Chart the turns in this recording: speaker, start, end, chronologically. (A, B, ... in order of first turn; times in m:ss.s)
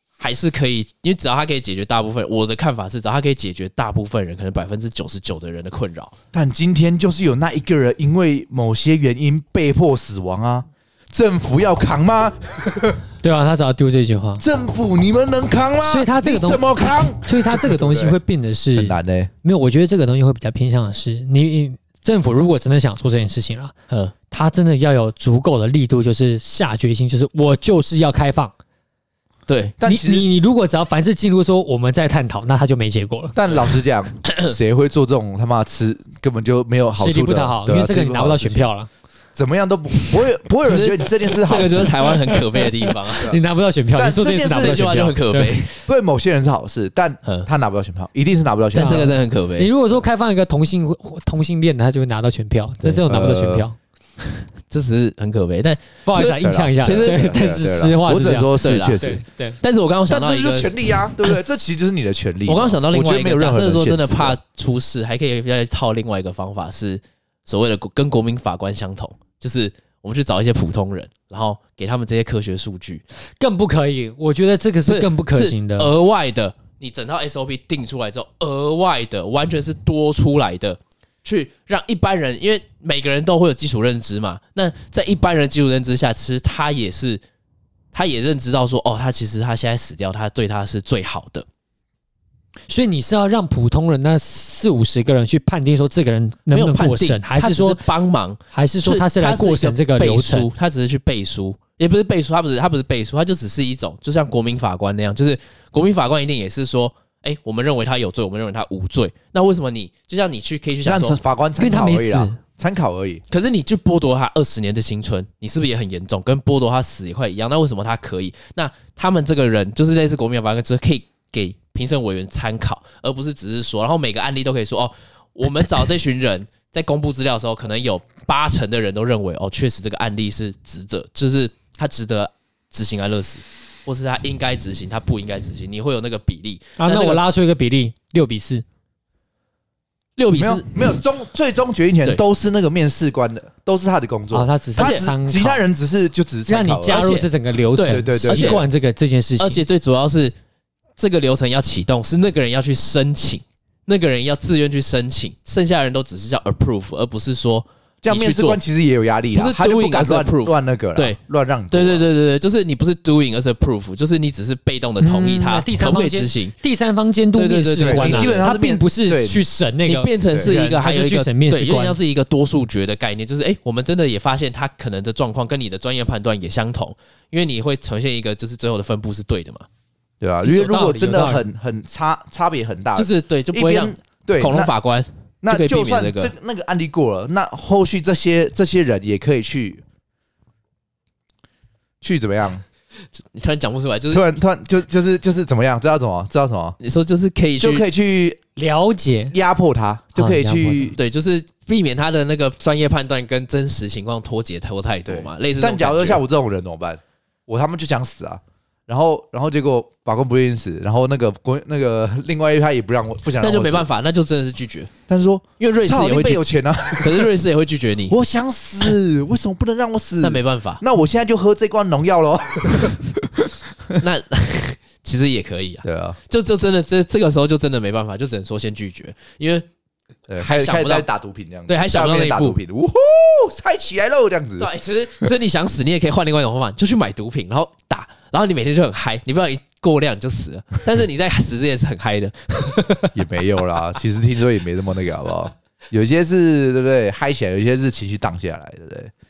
0:00.2-0:06.1 A
0:06.3-0:13.0 B
0:13.2-0:14.4 C
0:14.4-0:18.2 B
0:15.8-0:23.7 C
0:18.7-0:19.3 B
0:24.3-0:28.5 C
0:29.5-0:29.8 A
0:29.8-0:30.3 B
0:29.8-0:33.4 C
0:33.3-0:38.7 B
0:37.0-0:38.9 C
0:39.3-0:42.2 B
0:40.6-0:43.4 A
0:43.1-0:43.4 B
0:43.2-0:45.6 C
0:43.9-0:45.0 B
0:44.5-0:45.7 A
0:45.8-0:49.2 B
0:48.7-0:49.7 A
0:48.8-0:53.8 C
0:52.8-0:53.6 B
0:54.7-0:57.3 A
0:56.0-0:59.6 C
0:56.2-0:59.2 B
0:58.6-1:01.3 A
1:00.1-1:04.4 B
1:02.5-1:13.0 A
1:13.4-1:15.9 C
1:14.8-1:27.2 A
1:27.9-1:31.4 A
1:32.7-1:37.8 C
1:36.5-1:51.2 A
1:38.5-1:40.5 C
1:50.8-1:53.2 B
1:51.6-1:52.4 C
1:53.3-2:17.2 A
2:16.8-2:18.6 C
2:20.2-2:20.7 A
2:20.3-2:27.1 B
2:24.3-2:25.6 C
2:24.8-2:25.0 A
2:26.5-2:29.6 C
2:26.9-2:28.6 A
2:27.9-2:28.6 B
2:29.4-2:30.3 A
2:31.0-2:38.6 A
2:38.0-2:42.0 B
2:39.3-2:41.2 A
2:41.7-2:46.6 A
2:45.0-2:52.0 C
2:47.3-2:48.4 A
2:47.8-2:49.4 B
2:49.8-2:59.6 A
3:00.2-3:04.7 B
3:00.4-3:01.4 C
3:02.9-3:06.3 A
3:05.4-3:09.8 B
3:12.0-3:12.6 B
3:13.3-3:14.2 A
3:14.1-3:16.8 B
3:16.8-3:17.8 A
3:17.6-3:18.4 B
3:18.6-3:19.3 C
3:19.3-3:21.0 B
3:20.1-3:21.0 C
3:21.0-3:26.2 A
3:25.1-3:33.9 B
3:33.4-3:34.9 A
3:35.1-3:37.3 B
3:35.6-3:36.4 A
3:37.0-3:38.2 A
3:38.1-3:44.0 B
3:40.2-3:40.8 A
3:44.0-3:49.6 A
3:45.8-3:46.2 B
3:50.3-3:54.7 B
3:50.4-3:51.0 A
3:51.7-3:52.6 A
3:54.6-4:03.2 A
4:03.1-4:09.1 B